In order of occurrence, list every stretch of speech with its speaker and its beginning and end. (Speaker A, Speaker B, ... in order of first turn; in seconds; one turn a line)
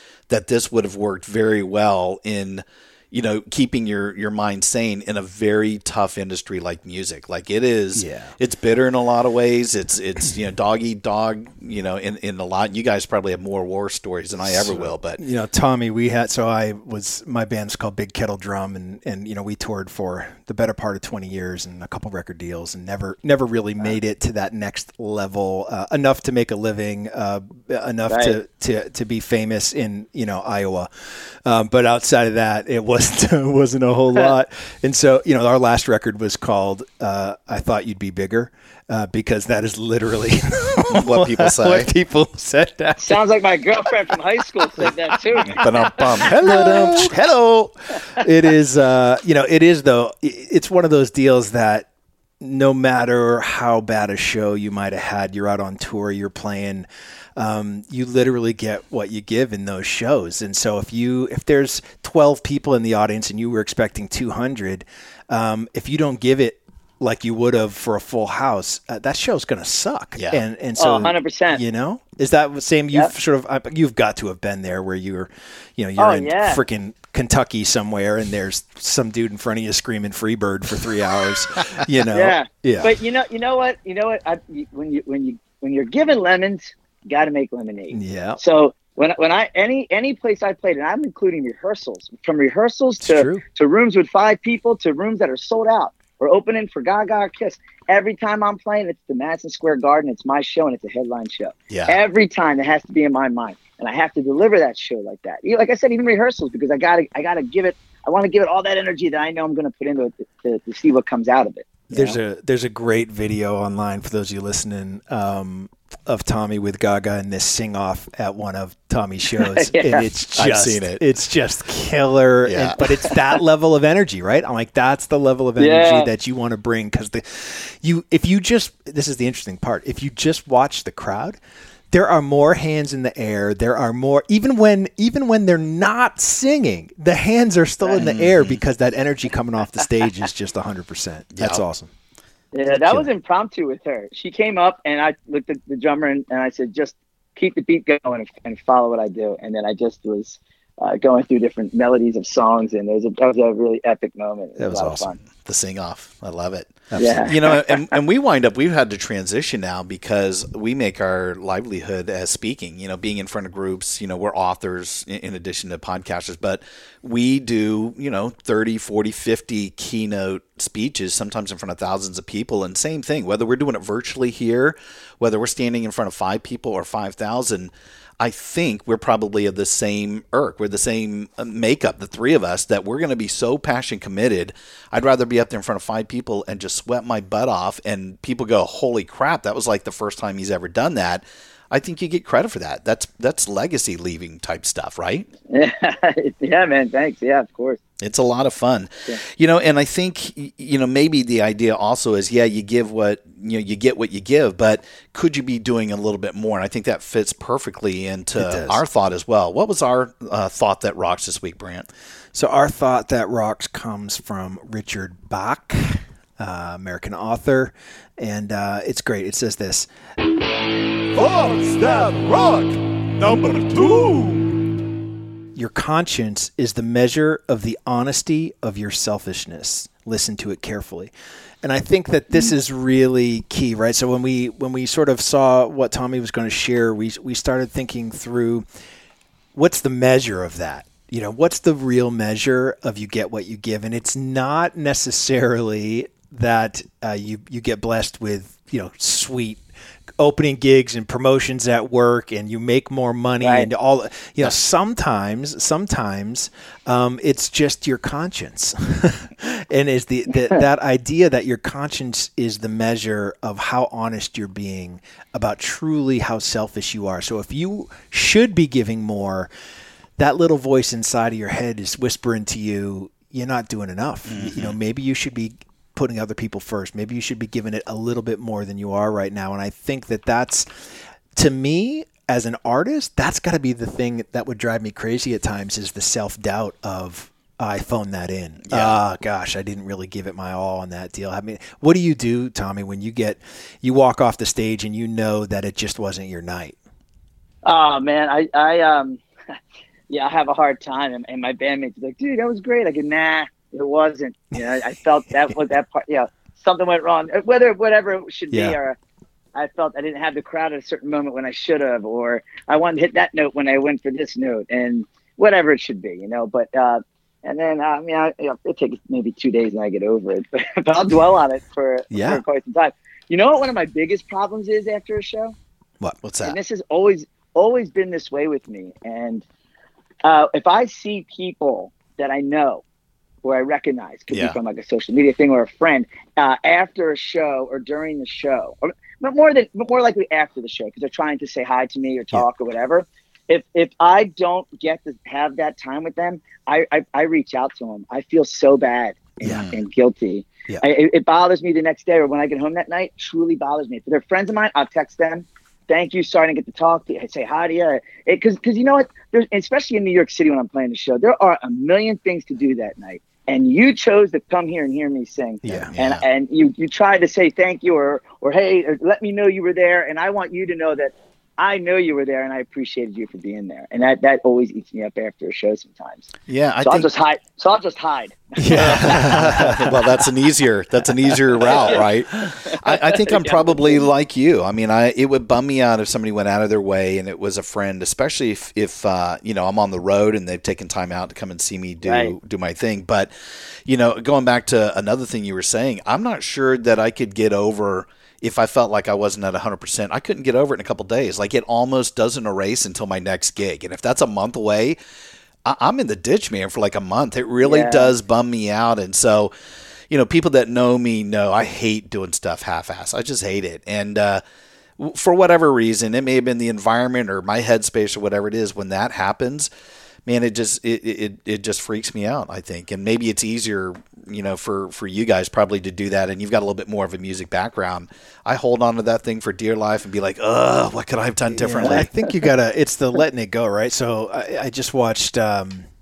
Speaker A: 0.3-15.2
Speaker B: 8.0-8.3
Speaker B: 14.4-43.2
Speaker C: 28.1-28.4
Speaker A: 40.9-41.9
Speaker C: 43.0-46.4
Speaker B: 44.8-45.5
Speaker A: 45.5-47.1
Speaker B: 46.2-51.9
Speaker B: 52.4-82.9
Speaker A: 70.2-70.4
Speaker C: 70.8-71.6
Speaker C: 76.0-76.6
Speaker C: 82.1-112.2
Speaker B: 87.9-88.4
Speaker B: 93.0-93.4
Speaker A: 101.7-102.0
Speaker B: 111.9-131.4
Speaker C: 119.4-120.0
Speaker A: 120.3-121.0
Speaker A: 122.4-122.8
Speaker C: 122.8-123.1
Speaker C: 125.6-126.1
Speaker B: 131.9-141.9
Speaker A: 138.0-138.6
Speaker A: 141.3-141.6
Speaker C: 142.5-155.2
Speaker B: 154.6-155.1
Speaker A: 155.4-195.3
Speaker B: 156.9-157.3
Speaker C: 157.0-157.9
Speaker C: 195.5-197.8
Speaker A: 198.0-211.9
Speaker B: 208.3-208.8
Speaker B: 212.3-219.9
Speaker A: 221.1-222.7
Speaker A: 223.2-224.3
Speaker B: 225.5-238.6
Speaker B: 239.5-249.6
Speaker B: 250.2-269.5
Speaker C: 253.4-253.7
Speaker B: 270.2-280.7
Speaker A: 274.3-274.8
Speaker B: 281.3-296.8
Speaker A: 288.7-289.0
Speaker C: 297.6-299.2
Speaker C: 300.1-309.0
Speaker B: 308.5-308.8
Speaker C: 309.5-325.5
Speaker B: 322.1-322.4
Speaker A: 326.2-326.6
Speaker C: 326.4-329.4
Speaker C: 330.2-332.8
Speaker C: 333.4-376.3
Speaker A: 334.3-334.6
Speaker A: 349.4-349.7
Speaker B: 365.6-365.9
Speaker A: 365.7-366.2
Speaker A: 376.5-377.1
Speaker C: 376.8-379.2
Speaker B: 378.6-379.9
Speaker A: 378.7-393.3
Speaker C: 381.6-384.1
Speaker C: 392.0-392.3
Speaker A: 393.9-405.0
Speaker A: 405.6-409.5
Speaker C: 407.6-408.1
Speaker A: 410.1-414.4
Speaker A: 415.0-419.7
Speaker A: 420.2-432.1
Speaker B: 431.5-435.9